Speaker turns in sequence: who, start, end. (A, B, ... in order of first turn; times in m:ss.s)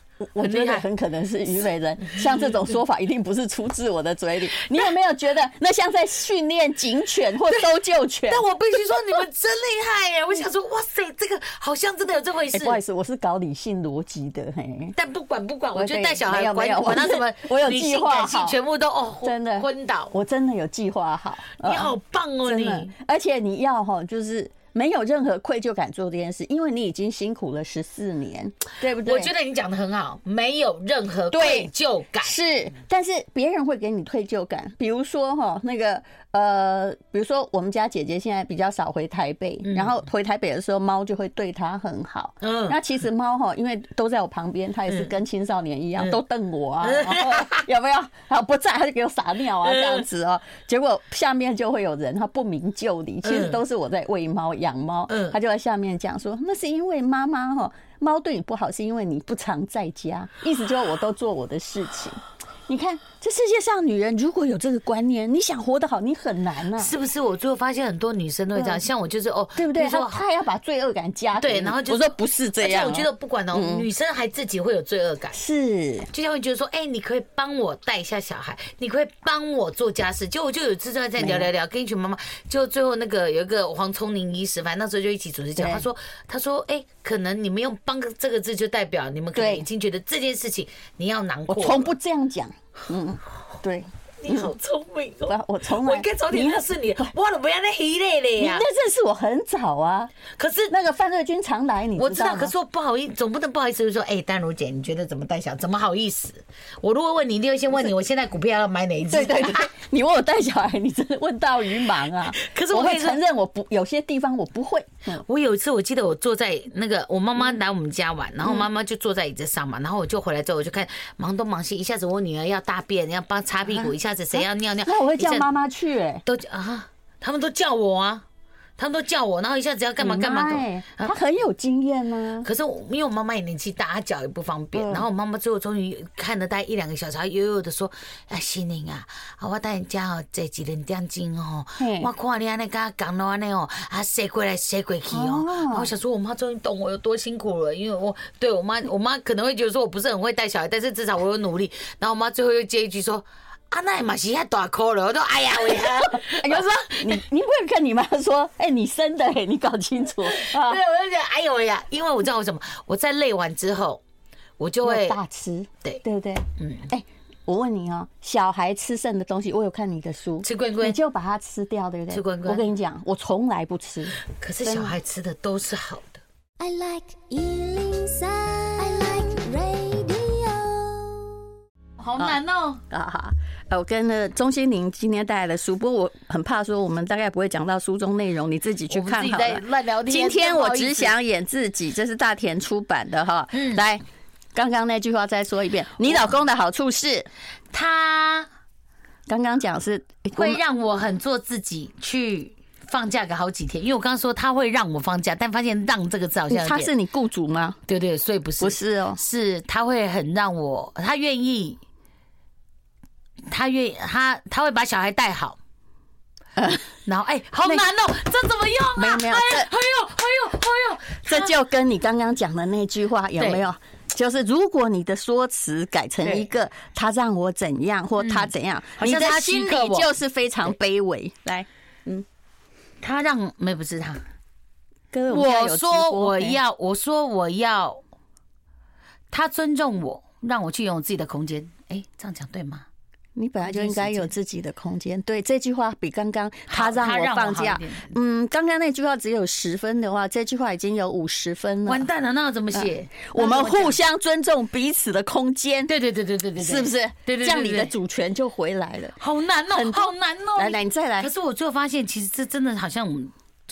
0:00.2-0:08.5 A
0:00.4-0:00.8 B
0:02.1-0:02.6 B
0:08.3-0:12.8 B
0:12.5-0:15.0 A
0:15.0-0:20.1 B
0:15.7-0:18.6 A
0:19.2-0:29.3 A
0:21.6-0:22.9 B
0:29.0-0:32.3 B
0:31.3-0:31.7 A
0:32.2-1:06.9 A
0:39.6-0:39.9 B
0:42.4-0:42.8 B
0:46.8-0:47.6 B
0:49.6-0:50.1 B
0:53.2-0:53.6 B
0:55.1-0:55.4 B
1:06.7-1:10.2 B
1:08.5-1:08.8 A
1:09.6-1:13.8 A
1:11.4-1:15.4 B
1:15.3-1:16.1 A
1:16.1-1:31.9 B
1:21.2-1:21.5 A
1:25.6-1:25.8 A
1:29.3-1:29.6 A
1:31.5-1:34.5 A
1:34.2-1:38.6 B
1:35.3-1:37.1 A
1:38.4-1:40.1 A
1:40.3-1:40.7 B
1:40.7-1:42.5 A
1:42.0-1:49.7 B
1:49.1-1:55.2 A
1:52.3-1:53.2 B
1:55.1-2:05.5 B
2:03.7-2:06.2 A
2:06.2-2:08.2 B
2:08.8-2:11.1 B
2:10.0-2:12.5 A
2:12.4-2:37.2 B
2:14.7-2:15.0 A
2:21.8-2:22.1 A
2:25.1-2:25.9 A
2:35.8-2:40.8 A
2:40.2-2:44.0 B
2:44.6-2:45.2 B
2:44.8-2:54.9 A
2:46.6-2:46.9 B
2:50.4-2:51.0 B
2:52.1-2:52.6 B
2:54.2-2:56.2 B
2:56.6-3:01.3 C
3:02.0-3:02.8 B
3:02.2-3:14.0 A
3:08.9-3:11.2 B
3:13.5-3:13.8 B
3:14.5-3:17.3 A
3:17.7-3:18.5 B
3:19.3-3:20.6 A
3:20.3-3:26.9 B
3:26.5-3:27.8 A
3:27.9-3:31.8 B
3:28.6-3:29.2 A
3:33.5-3:35.6 B
3:36.6-3:36.9 A
3:37.0-3:41.6 B
3:39.0-3:39.7 A
3:41.2-3:52.2 A
3:48.2-3:50.2 B
3:53.0-3:54.2 B
3:55.1-3:56.6 A
3:55.3-3:58.0 B
3:59.3-4:02.9 B
4:03.4-4:12.1 A
4:03.6-4:04.3 B
4:06.7-4:08.1 B
4:11.8-4:14.0 B
4:12.7-4:15.9 A
4:15.9-4:17.9 B
4:16.6-4:19.2 A
4:19.2-4:23.3 B
4:19.7-4:21.3 A